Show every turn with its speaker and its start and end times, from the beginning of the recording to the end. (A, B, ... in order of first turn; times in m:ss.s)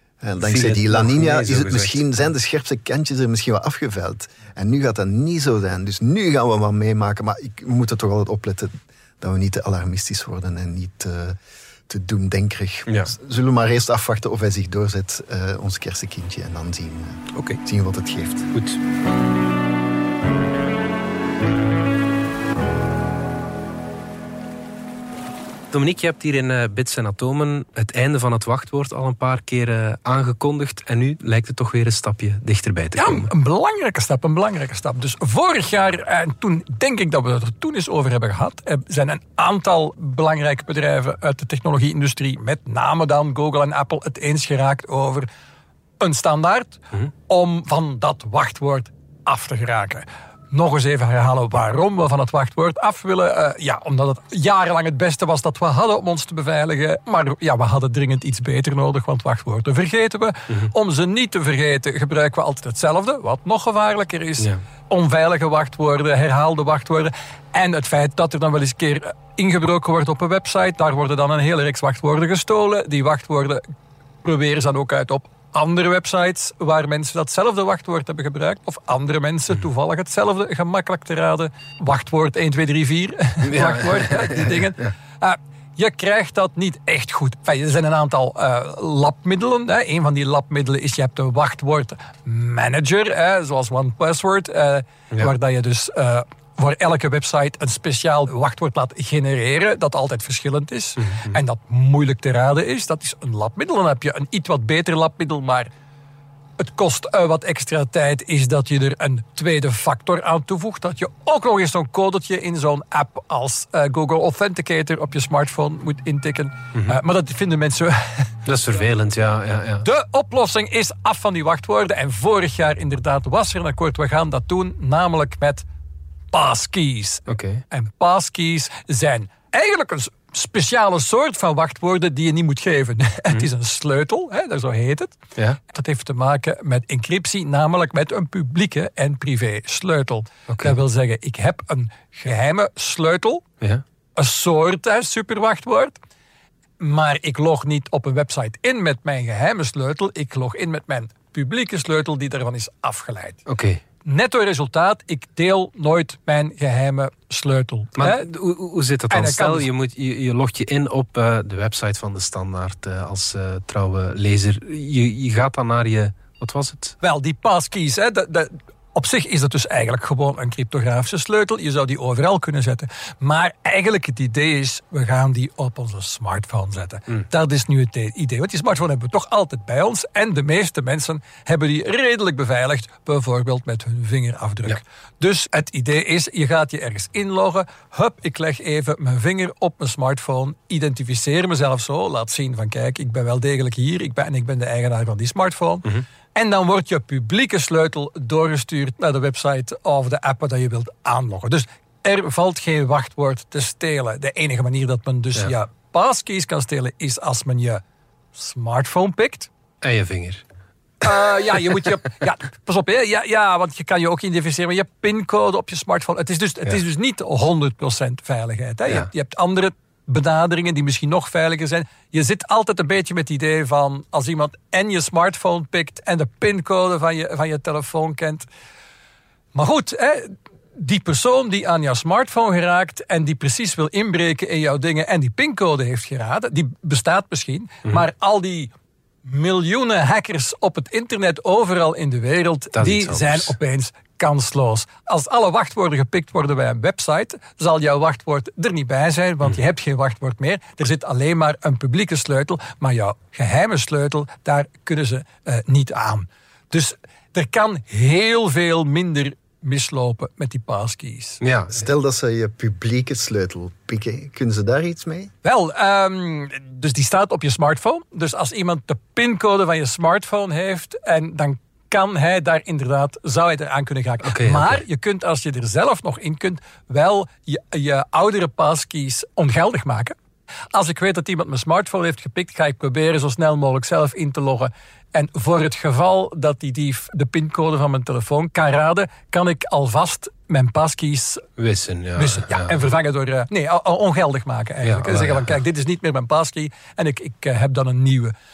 0:00.2-0:11.4 A
0:00.4-0:02.0 B
0:11.9-0:18.5 A
0:12.9-0:13.1 B
0:17.3-0:17.6 B
0:18.5-0:18.8 B
0:25.7-0:33.3 B
0:33.0-0:45.3 C
0:46.0-1:13.6 C
1:14.2-1:45.7 C
1:23.4-1:24.9 B
1:41.0-1:41.4 B
1:46.6-1:58.3 C
1:58.4-1:59.8 B
1:59.8-2:05.6 C
2:06.3-2:15.2 C
2:07.3-2:07.6 B
2:15.7-2:23.4 C
2:20.5-2:20.7 B
2:24.2-2:26.0 C
2:26.8-2:33.4 C
2:33.5-2:33.8 B
2:34.0-2:38.2 C
2:38.0-2:47.0 B
2:39.1-2:39.7 C
2:47.0-3:27.8 C
3:28.3-3:29.5 C
3:29.8-3:30.4 B
3:31.0-3:48.4 C
3:49.5-3:58.7 C
3:59.2-4:21.4 C
4:02.7-4:03.5 B
4:21.4-4:21.9 B
4:21.7-4:25.3 A
4:25.4-4:40.2 C
4:34.2-4:34.8 B
4:40.7-4:51.4 C
4:51.6-4:52.8 B
4:52.2-4:58.3 C
4:54.8-4:55.5 B